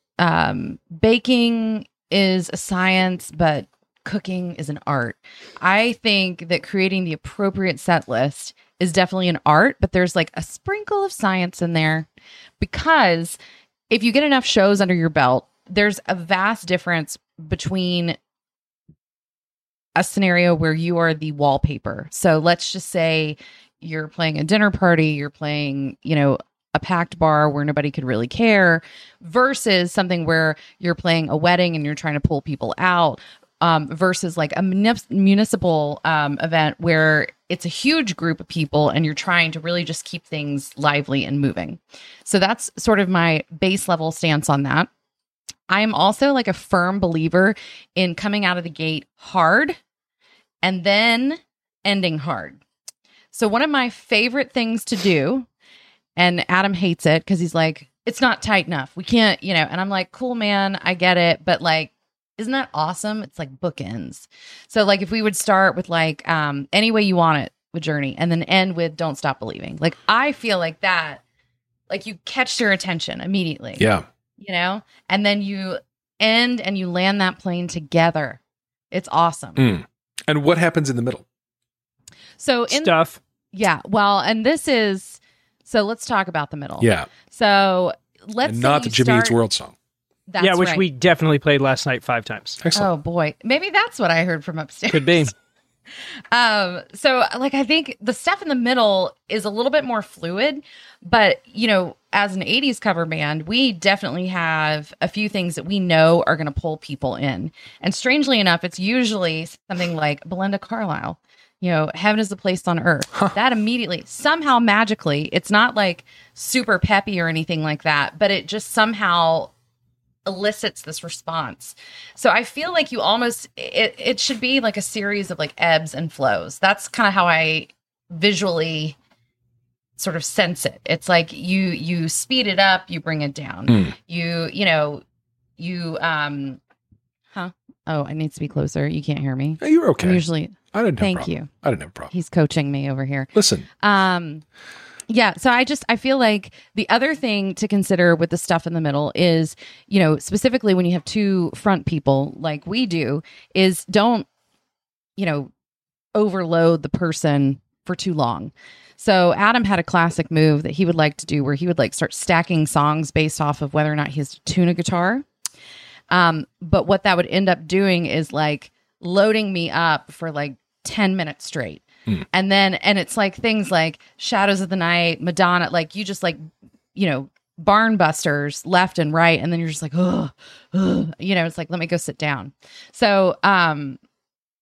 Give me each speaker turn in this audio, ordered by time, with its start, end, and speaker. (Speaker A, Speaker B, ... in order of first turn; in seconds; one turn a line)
Speaker A: 0.2-12.1
Speaker A: 12.6-13.4
Speaker A: 13.9-18.2
Speaker A: 20.0-44.9
Speaker A: 45.7-49.8
Speaker A: 50.6-52.6
Speaker A: 53.3-55.5
Speaker A: 56.2-71.2
Speaker A: 71.9-73.9
Speaker B: 73.8-74.0
Speaker A: 74.4-78.4
Speaker A: 78.9-79.7
Speaker B: 79.6-81.3
Speaker A: 82.4-82.9
Speaker C: 82.7-83.2
Speaker A: 83.5-89.4
Speaker B: 86.8-87.1
Speaker B: 88.4-89.8
Speaker A: 90.3-90.9
Speaker C: 90.4-92.6
Speaker B: 92.6-92.9
Speaker A: 92.7-95.3
Speaker C: 94.9-95.3
Speaker A: 96.3-119.5
Speaker A: 120.3-129.0
Speaker A: 130.0-135.0
Speaker A: 135.6-136.6
Speaker A: 137.3-141.5
Speaker B: 139.6-142.1
Speaker A: 142.1-144.4
Speaker B: 143.3-143.7
Speaker A: 145.1-154.3
Speaker A: 155.2-155.5
Speaker A: 156.2-165.2
Speaker A: 166.1-176.4
Speaker A: 176.9-184.0